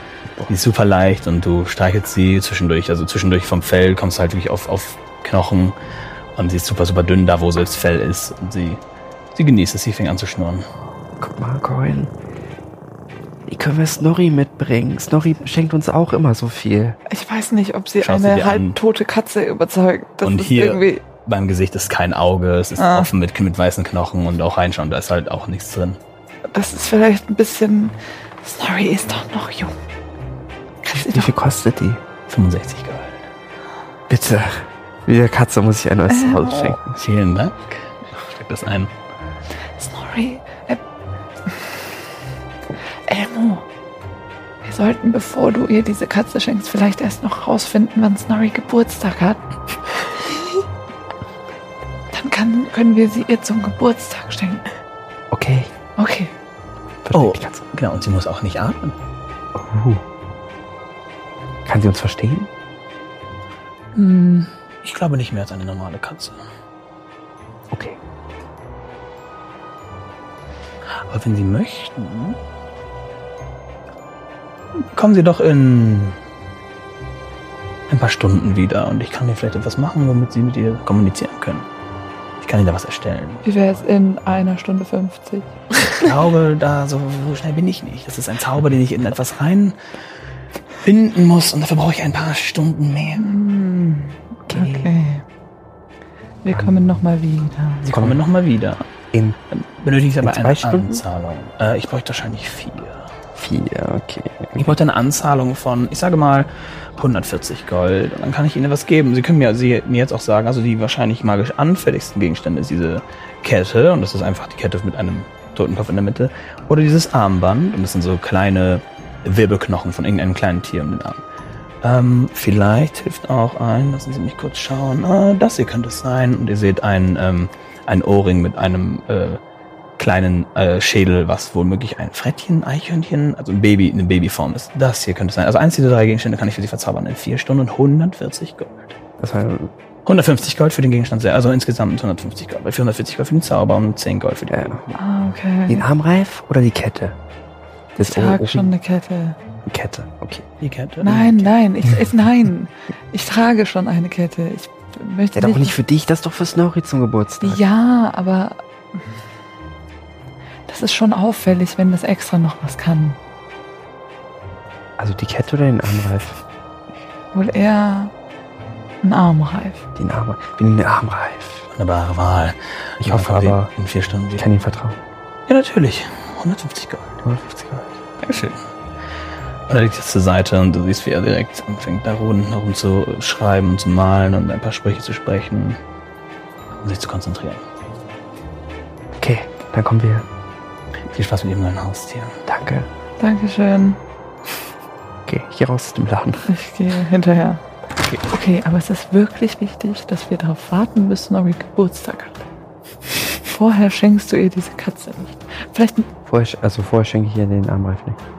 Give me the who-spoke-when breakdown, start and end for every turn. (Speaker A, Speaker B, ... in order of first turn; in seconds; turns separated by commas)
Speaker A: 0.5-5.8, Speaker A: 6.3-8.8, Speaker A: 9.3-10.7, Speaker B: 11.2-12.1, Speaker B: 13.5-17.0, Speaker C: 17.1-21.0, Speaker A: 18.0-18.8, Speaker A: 20.2-26.0, Speaker C: 22.8-23.1, Speaker C: 26.5-29.8, Speaker C: 30.9-31.3, Speaker B: 30.9-32.0, Speaker A: 32.3-33.3, Speaker B: 34.1-37.0, Speaker C: 36.1-36.8, Speaker A: 37.0-38.9, Speaker C: 39.8-40.8, Speaker C: 43.1-43.6, Speaker C: 44.6-49.4, Speaker C: 52.1-54.6, Speaker B: 55.3-55.7, Speaker C: 56.0-56.3, Speaker B: 57.0-57.6, Speaker A: 57.1-59.0, Speaker B: 59.5-60.0, Speaker B: 61.6-62.5, Speaker C: 64.0-64.5, Speaker A: 64.8-66.4, Speaker B: 67.7-68.0, Speaker A: 71.1-72.4, Speaker A: 74.8-76.2, Speaker A: 77.9-81.7, Speaker A: 82.4-83.4, Speaker C: 83.4-85.5, Speaker A: 86.0-89.8, Speaker A: 90.8-93.2, Speaker C: 93.2-95.2, Speaker B: 94.5-94.9, Speaker C: 96.4-97.9, Speaker A: 97.8-98.9, Speaker B: 97.9-98.2, Speaker A: 99.5-103.1, Speaker B: 100.2-101.0, Speaker B: 103.3-104.8, Speaker A: 104.6-121.2, Speaker A: 121.8-129.4, Speaker A: 130.0-139.0, Speaker B: 139.2-139.7, Speaker A: 140.1-145.0, Speaker B: 144.5-144.9, Speaker C: 144.9-145.8, Speaker B: 145.7-147.2, Speaker B: 147.9-148.7, Speaker C: 148.0-149.4, Speaker B: 149.7-150.4, Speaker A: 150.6-151.4, Speaker C: 151.0-155.8, Speaker B: 155.3-157.6, Speaker C: 157.4-158.6, Speaker C: 160.7-163.2, Speaker B: 165.0-166.4, Speaker C: 167.3-168.1, Speaker C: 169.0-169.8, Speaker B: 169.9-171.7, Speaker A: 171.7-174.4, Speaker B: 173.0-173.7, Speaker B: 174.3-175.0, Speaker A: 175.5-177.2, Speaker B: 177.2-178.0, Speaker A: 178.2-178.6, Speaker A: 179.7-185.8, Speaker A: 186.8-187.6, Speaker B: 189.2-190.2, Speaker A: 191.1-192.4, Speaker B: 192.5-192.9, Speaker C: 193.2-194.0, Speaker B: 195.2-196.5, Speaker C: 196.5-197.6, Speaker C: 198.3-202.4, Speaker C: 203.5-206.1, Speaker B: 206.3-208.2